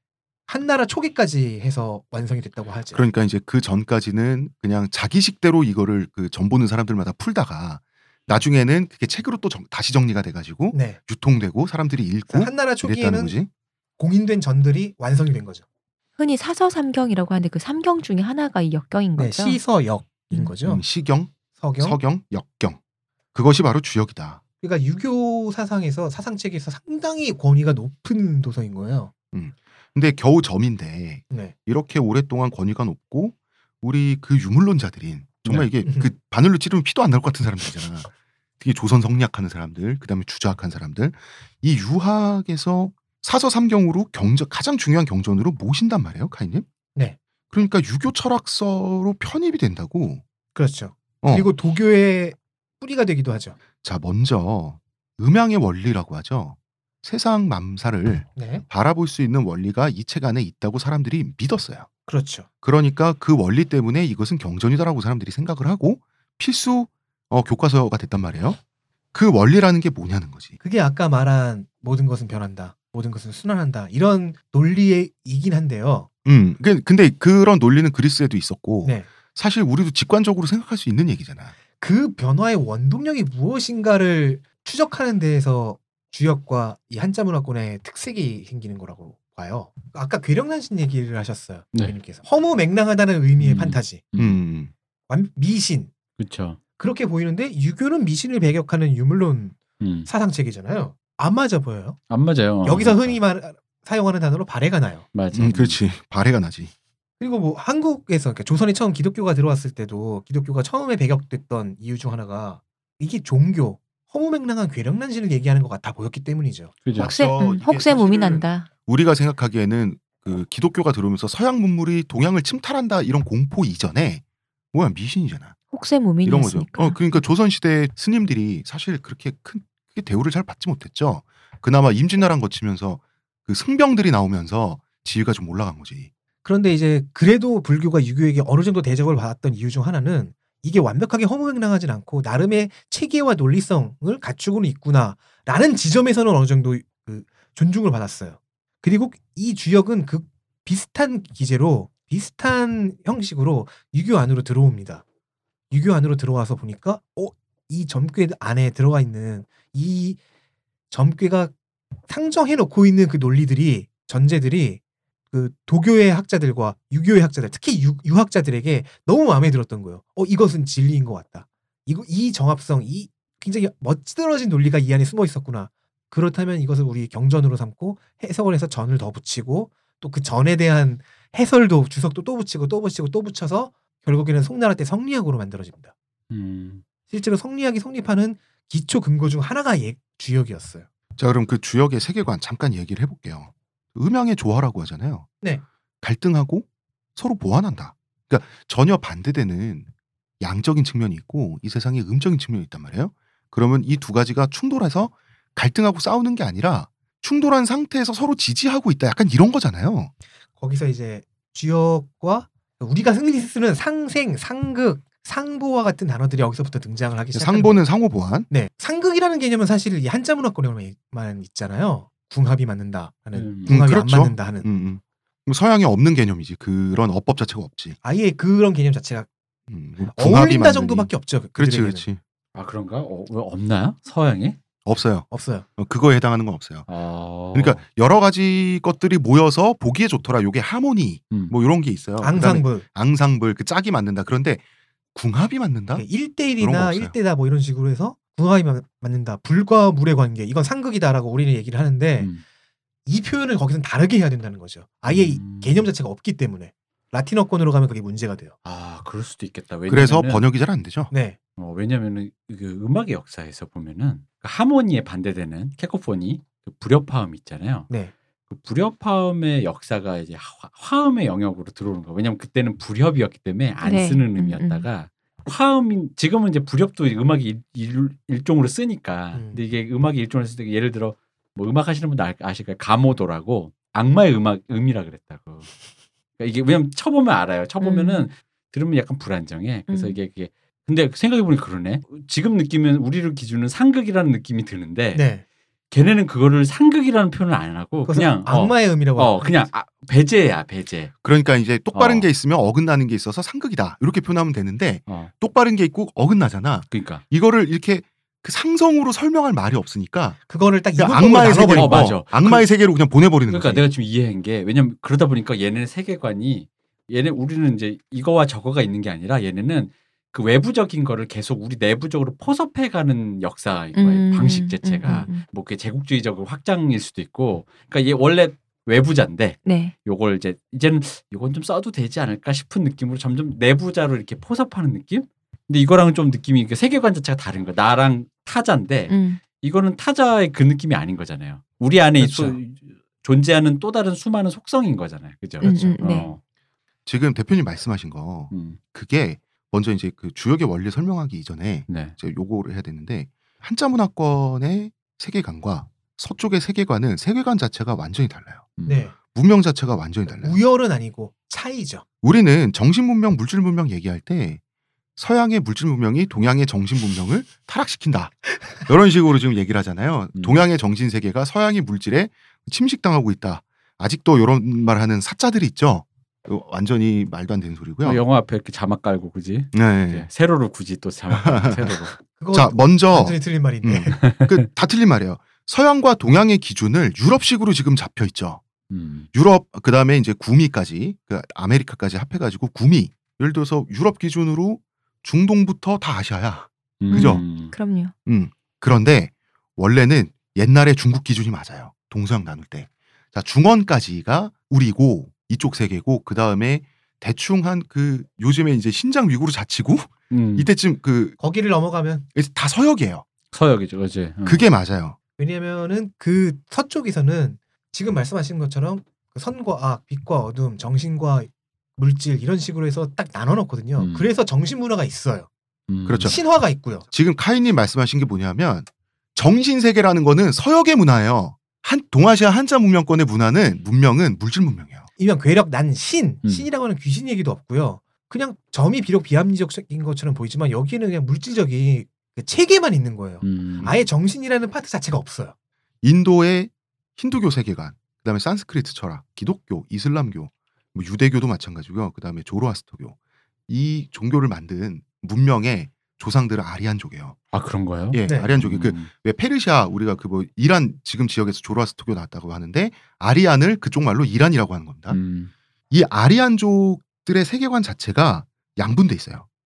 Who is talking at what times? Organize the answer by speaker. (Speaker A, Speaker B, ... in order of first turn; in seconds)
Speaker A: 0.5-3.0, 10.7-11.0, 12.3-13.3, 14.0-15.6, 19.2-20.8, 21.6-22.0, 24.6-29.1, 35.8-36.1, 50.5-53.6, 58.4-58.6, 62.1-62.5, 70.6-76.1, 81.8-94.0, 95.1-95.9, 96.8-102.0, 102.6-105.0, 107.2-116.7, 136.4-155.0, 155.7-160.2, 160.9-161.5, 162.1-164.8, 165.3-185.9, 187.1-190.8, 210.6-217.8, 218.5-224.7, 228.0-229.3, 230.1-232.1, 235.3-235.7, 242.2-242.8, 245.9-252.3, 253.1-258.5, 261.1-261.4, 279.3-279.6, 295.1-295.4, 298.1-299.6, 310.5-312.2, 342.2-342.6, 345.6-345.9, 358.9-359.1, 360.3-362.0, 382.3-384.2, 411.4-412.2, 415.4-425.5, 426.2-427.1, 435.2-445.5, 458.3-458.5
Speaker B: 2.9-13.5, 20.6-22.8, 23.3-24.4, 29.3-46.6, 47.5-50.2, 51.2-51.5, 53.8-61.9, 62.6-68.6, 69.1-70.5, 76.2-81.5, 94.2-94.7, 105.3-106.7, 117.0-125.5, 126.2-136.1, 191.2-195.3, 196.0-199.9, 200.4-210.1, 217.3-218.5, 223.7-228.0, 229.7-232.2, 234.8-236.9, 237.5-244.6, 245.1-247.1, 259.9-261.1, 301.2-310.4, 310.9-313.9, 347.1-358.7, 359.3-360.6, 362.2-364.6, 365.2-378.2, 379.7-380.3, 381.3-381.9, 382.5-388.6, 389.3-397.4, 398.2-411.4, 412.3-413.2, 414.4-415.2, 426.1-426.4, 427.1-435.1, 446.0-453.1, 453.7-457.4, 458.1-465.2, 465.9-469.4
Speaker C: 16.2-19.6, 117.0-118.7, 125.7-127.0, 273.8-274.9, 287.8-288.3, 289.9-290.2, 323.9-325.4, 329.6-329.9, 339.1-339.4, 345.6-346.3, 397.1-398.1
Speaker D: 93.4-94.4, 96.2-96.6, 99.8-100.1, 102.1-103.2, 105.1-105.8, 116.8-117.1, 186.3-186.8, 223.3-223.8, 232.5-234.6, 236.9-237.8, 255.1-255.9, 258.6-260.4, 261.6-267.9, 268.5-285.7, 286.4-295.2, 295.9-301.1, 301.9-302.3, 305.1-305.3, 306.9-307.2, 311.7-312.7, 313.5-346.4, 348.5-348.8, 351.9-352.1, 358.8-359.1, 370.3-370.6, 378.0-382.1, 384.2-384.6, 388.9-389.3, 397.0-397.7, 410.3-410.7, 413.5-414.6, 424.0-424.3, 425.9-426.4, 443.4-443.9, 457.5-459.1, 465.1-465.5